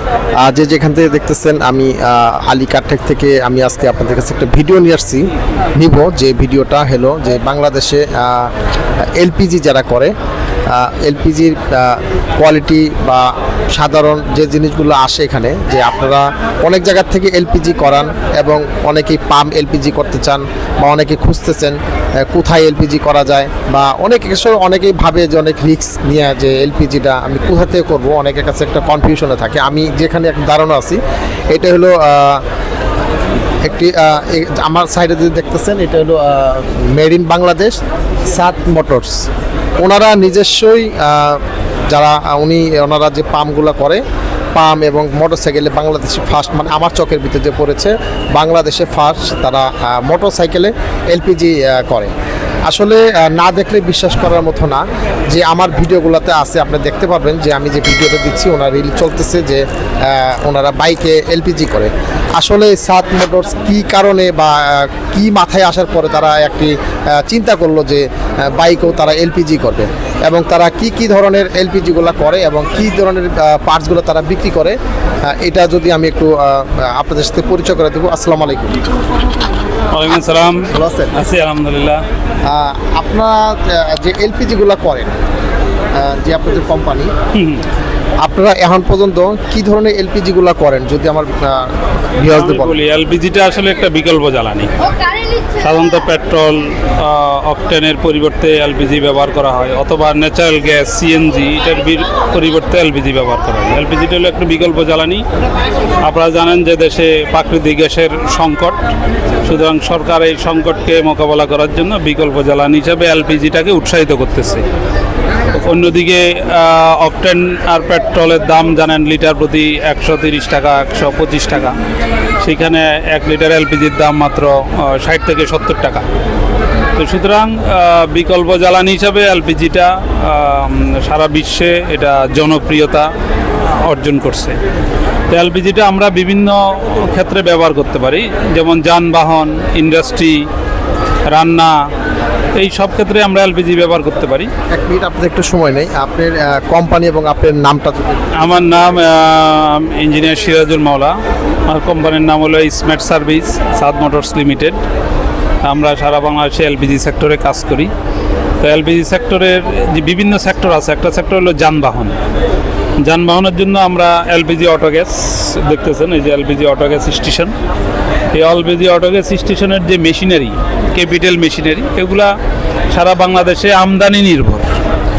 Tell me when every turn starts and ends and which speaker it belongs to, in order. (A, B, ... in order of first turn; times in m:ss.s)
0:00.4-0:08.5 A
0:09.2-0:10.1 A
0:10.7-0:32.4 A
0:33.6-0:37.8 A
0:38.3-0:39.3 A
0:39.8-0:44.0 A
0:44.5-0:52.1 A
0:52.7-1:14.8 A
1:15.3-1:18.8 A
1:19.9-1:22.0 B
1:20.7-1:21.2 A
1:22.5-1:25.1 A
1:26.0-1:27.1 A
1:27.3-1:27.6 B
1:28.2-1:32.8 A
1:32.2-1:45.2 B
1:46.0-1:48.8 B
1:49.4-1:54.6 B
1:55.5-2:01.7 B
2:02.4-2:06.0 B
2:06.9-2:13.1 B
2:13.7-2:14.6 B
2:15.3-2:20.5 B
2:21.3-2:21.7 B
2:22.5-2:24.5 B
2:24.7-2:28.4 A
2:28.3-2:31.1 B
2:31.7-2:34.8 B
2:35.6-2:37.9 B
2:38.6-2:42.2 B
2:43.0-2:47.5 B
2:48.3-2:52.3 B
2:52.9-2:54.7 B